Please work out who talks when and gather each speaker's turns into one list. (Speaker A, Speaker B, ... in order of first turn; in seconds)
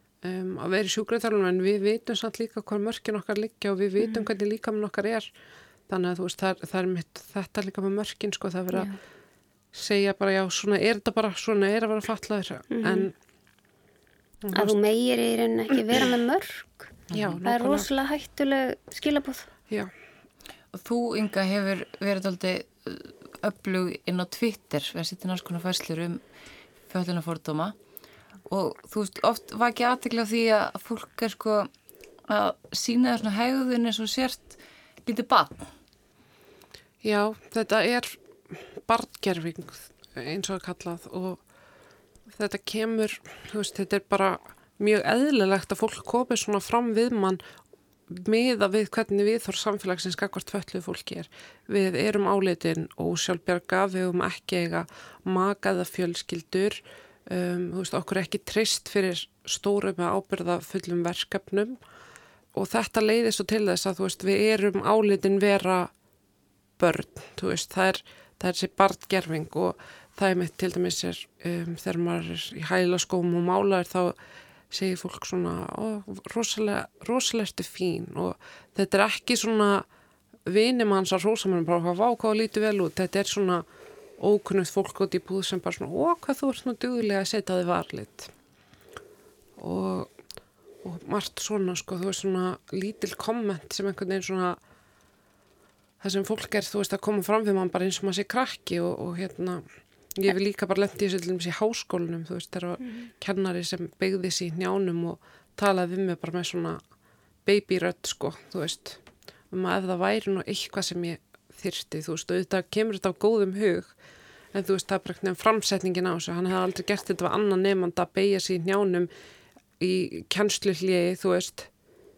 Speaker A: 0.2-5.3, 5.9-8.9, 9.7-13.1, 14.4-14.8, 17.1-17.9, 37.0-41.4, 42.3-47.4, 48.1-61.8, 62.5-65.9, 66.8-74.2, 74.7-79.9, 80.5-83.7, 84.2-88.3, 89.6-90.1, 90.8-94.6, 96.0-99.6, 100.2-106.8, 107.5-114.0, 114.5-119.1, 119.8-121.7
Speaker B: 4.0-4.3, 8.7-9.0, 12.7-13.1, 14.5-16.9, 17.4-19.5
Speaker C: 17.1-17.4, 20.7-26.2, 26.9-27.8, 28.5-31.7, 32.3-35.7